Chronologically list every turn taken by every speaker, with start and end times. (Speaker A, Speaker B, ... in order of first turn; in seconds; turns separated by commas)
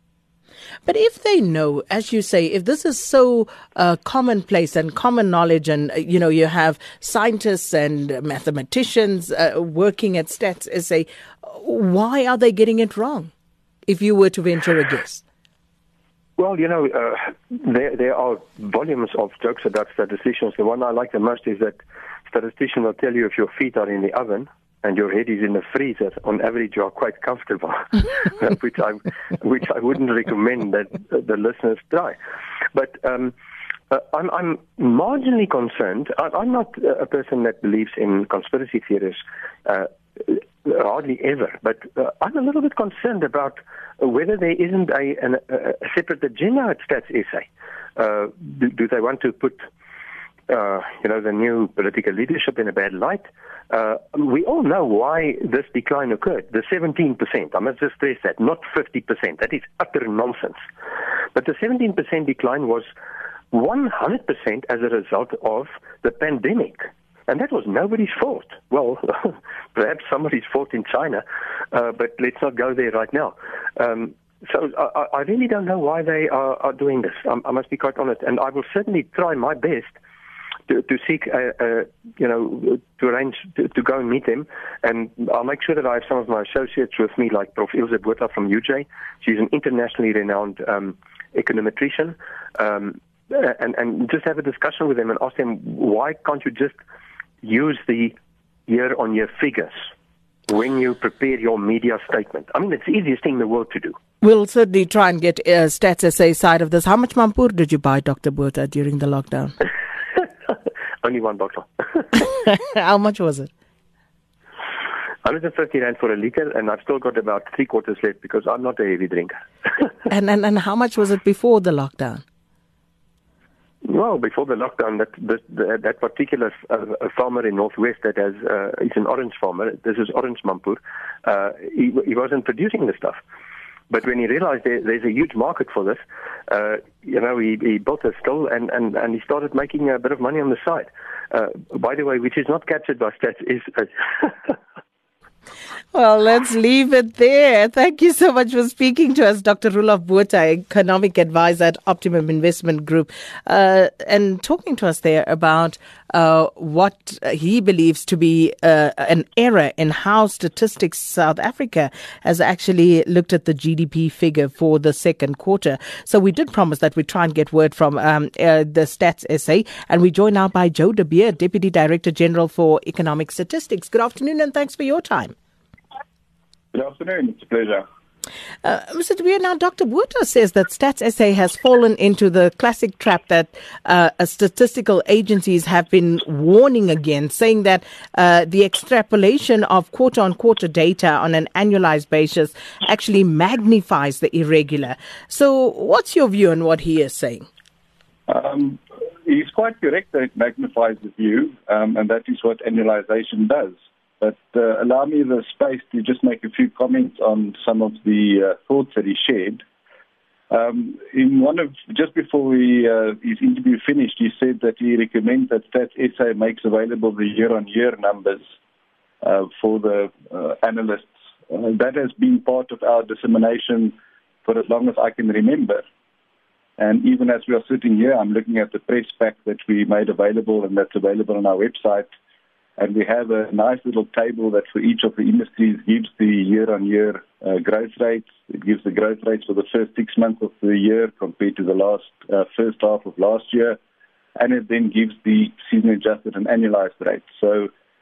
Speaker A: 0.8-13.3, Speaker A: 13.9-15.2, Speaker B: 16.4-32.2, Speaker B: 32.7-33.4, Speaker B: 33.9-49.6, Speaker B: 50.5-60.6, Speaker B: 61.3-62.9, Speaker B: 63.5-79.9, Speaker B: 80.7-96.8, Speaker B: 97.4-98.2, Speaker B: 98.7-99.9, Speaker B: 100.5-104.0, Speaker A: 104.2-109.5, Speaker B: 110.5-112.1, Speaker A: 112.1-113.5, Speaker B: 115.2-119.9, Speaker A: 120.1-122.2, Speaker B: 123.8-133.2, Speaker B: 133.9-144.6, Speaker A: 145.9-175.3, Speaker C: 176.7-177.8, Speaker A: 178.6-197.5, Speaker C: 198.3-209.6, Speaker C: 210.5-218.4, Speaker C: 219.2-225.8, Speaker C: 226.8-232.1, Speaker C: 232.8-243.8, Speaker C: 244.3-247.7